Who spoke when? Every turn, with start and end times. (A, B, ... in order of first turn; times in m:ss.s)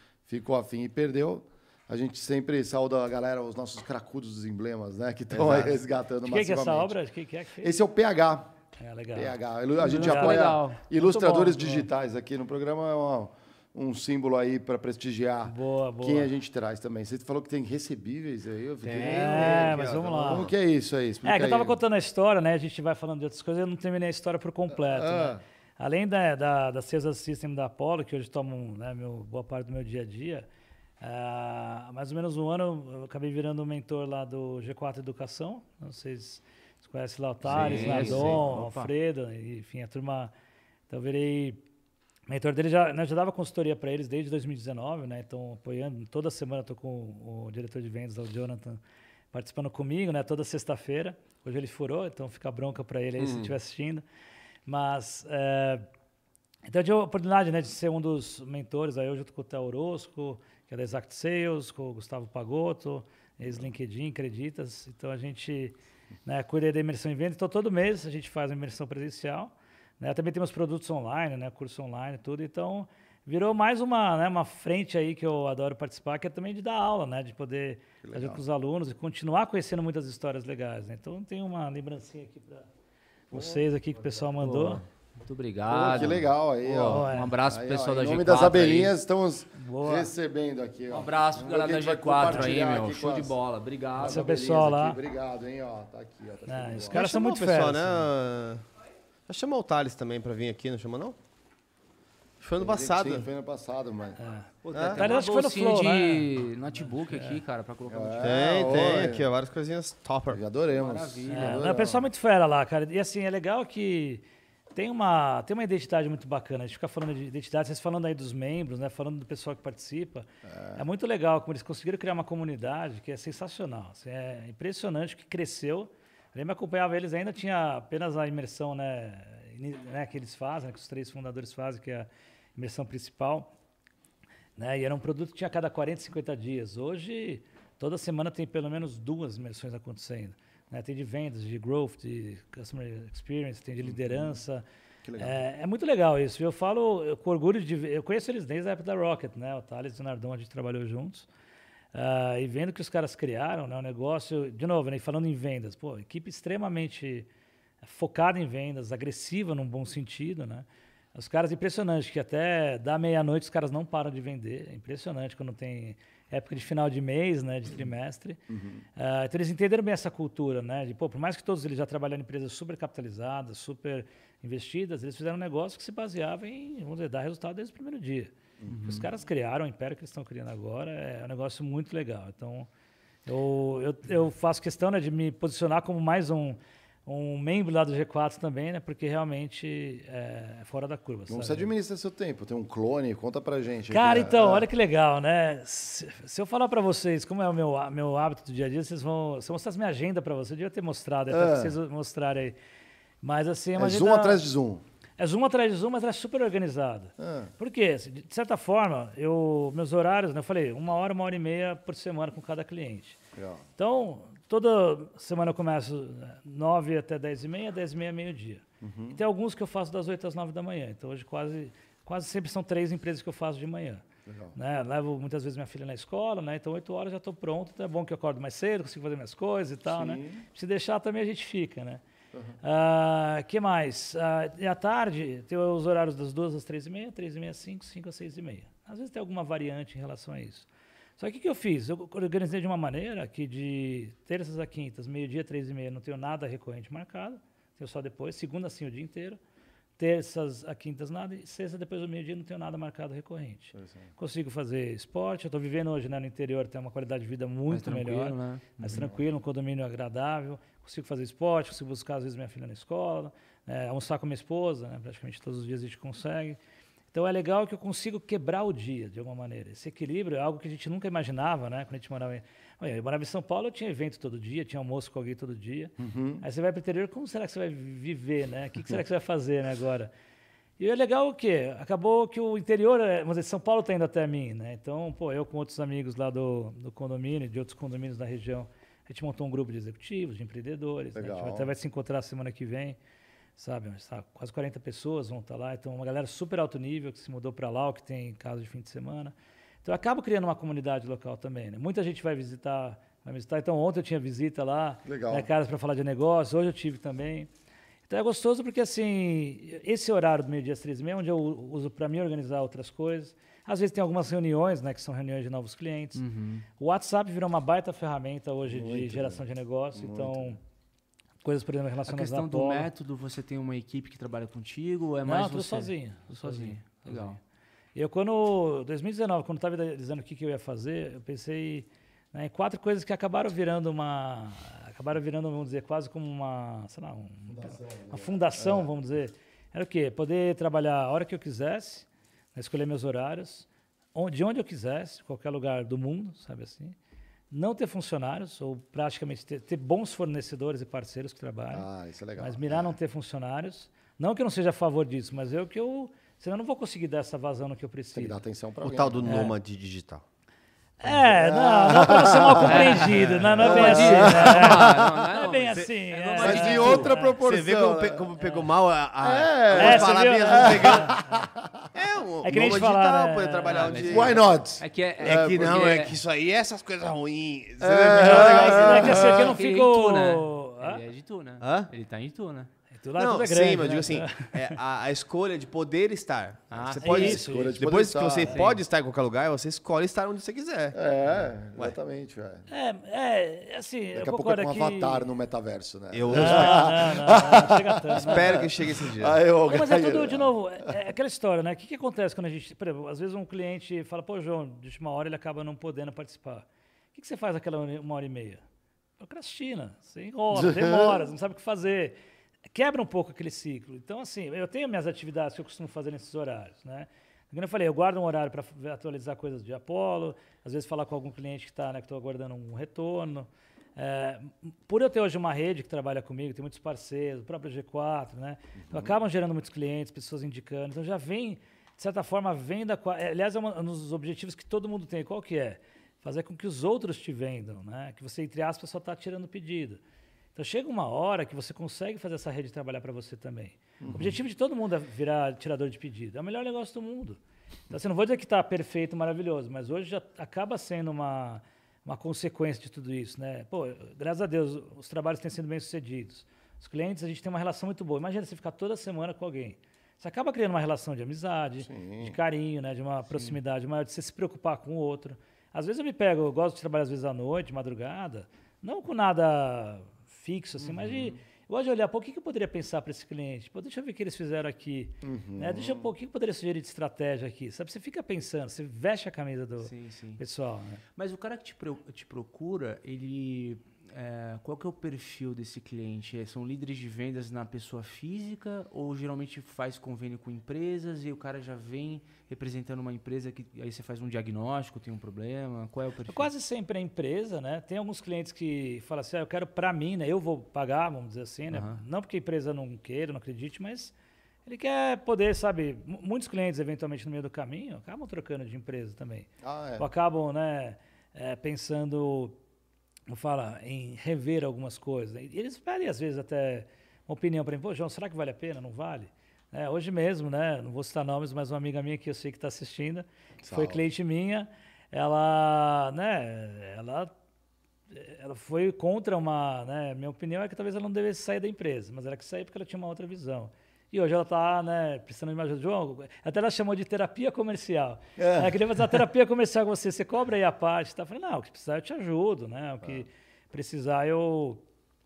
0:00.3-0:07.0 A
0:05.3-0:05.8 B
0:06.2-0:07.8 C
0:07.6-0:08.5 A
0:08.8-0:09.4 C
0:09.1-0:21.8 A
0:09.8-0:10.9 D
0:09.9-0:11.8 C
0:15.4-0:16.3 C
0:18.8-0:20.5 B
0:19.1-0:20.5 C
0:21.2-0:30.5 C
0:24.7-0:25.4 A
0:31.0-0:40.3 C
0:37.4-0:38.4 B
0:37.5-0:38.5 A
0:37.5-0:38.9 D
0:40.9-0:41.6 C
0:42.3-0:48.8 C
0:49.3-0:54.0 C
0:53.2-0:53.5 B
0:54.6-0:55.8 C
0:56.7-1:05.7 C
1:06.2-1:22.7 C
1:18.0-1:18.4 A
1:23.3-1:24.8 C
1:23.3-1:23.6 A
1:24.4-1:29.0 D
1:25.7-1:33.4 A
1:26.9-1:27.3 C
1:29.6-1:30.1 C
1:30.9-1:34.6 D
1:34.0-1:37.1 A
1:34.0-1:35.0 C
1:36.5-1:38.1 C
1:36.9-1:38.6 B
1:39.3-1:41.1 B
1:42.4-1:43.3 B
1:42.6-1:44.2 A
1:44.2-1:47.4 C
1:44.6-1:48.8 D
1:44.7-1:45.1 B
1:47.9-1:49.3 A
1:48.2-1:50.4 B
1:50.3-1:52.1 A
1:50.7-1:51.7 D
1:51.3-1:54.2 C
1:54.7-2:13.5 C
2:00.4-2:00.8 A
2:14.6-2:24.6 C
2:25.0-2:25.4 A
2:25.2-2:31.3 C
2:31.9-2:37.3 C
2:37.8-2:48.4 C
2:48.5-2:48.8 A
2:49.0-3:02.7 C
2:58.6-2:59.0 A
2:58.7-2:59.0 D
3:03.2-3:11.7 C
3:11.3-3:14.7 A
3:13.9-3:22.6 C
3:21.3-3:21.8 A
3:23.2-3:24.4 C
3:23.8-3:24.8 A
3:25.2-3:33.2 C
3:27.2-3:27.5 A
3:33.3-3:33.6 A
3:33.8-3:44.0 C
3:38.8-3:39.2 A
3:44.2-3:44.6 A
3:44.5-3:52.0 C
3:49.9-3:50.4 A
3:52.6-4:00.7 C
4:01.2-4:09.4 C
4:10.0-4:26.6 C
4:13.7-4:14.1 A
4:17.7-4:19.2 D
4:27.1-4:40.1 C
4:36.0-4:36.4 A
4:40.8-4:53.0 C
4:51.1-4:51.7 A
4:53.6-5:07.5 C
5:05.0-5:05.5 A
5:08.1-5:16.2 C
5:16.1-5:16.6 D
5:16.8-5:20.6 C
5:18.7-5:19.4 A
5:19.9-5:20.6 A
5:21.4-5:22.9 C
5:22.1-5:27.4 D
5:25.2-5:27.4 C
5:27.9-5:47.0 C
5:37.5-5:38.9 A
5:47.5-5:51.8 C
5:51.7-5:52.9 A
5:52.4-5:58.4 C
5:58.1-5:59.4 A
5:58.8-6:00.2 B
6:01.0-6:07.4 C
6:01.1-6:05.2 A
6:02.5-6:07.1 D
6:05.7-6:11.2 B
6:06.4-6:08.3 A
6:09.2-6:11.8 A
6:09.7-6:11.4 C
6:11.9-6:14.4 B
6:12.4-6:14.0 C
6:13.7-6:16.2 D
6:14.1-6:15.9 A
6:15.2-6:19.1 B
6:17.8-6:19.5 A
6:18.1-6:21.0 C
6:18.6-6:22.7 D
6:21.6-6:21.9 B
6:22.9-6:24.8 C
6:23.2-6:31.0 B
6:26.7-6:27.4 D
6:27.0-6:27.9 C
6:27.2-6:28.6 A
6:28.4-6:28.8 D
6:30.9-6:32.7 A
6:32.7-6:35.2 C
6:34.1-6:40.9 A
6:36.1-6:37.2 B
6:36.3-6:38.6 C
6:38.1-6:39.4 B
6:39.6-6:48.6 C
6:49.2-6:52.2 C
6:50.5-6:51.3 A
6:52.7-7:20.0 C
7:08.8-7:09.2 A
7:20.5-7:27.4 C
7:24.0-7:24.4 A
7:27.9-8:01.0 C
7:41.8-7:42.4 A
7:43.3-7:43.6 D
7:50.8-7:51.4 D
7:55.2-7:56.1 A
7:59.8-8:00.4 D
8:01.2-8:16.5 D
8:16.2-8:24.1 C
8:21.7-8:22.0 D
8:24.6-8:32.6 C
8:29.6-8:30.1 A
8:33.3-8:47.3 C
8:43.6-8:44.0 A
8:48.1-9:04.8 C
8:58.4-8:58.7 A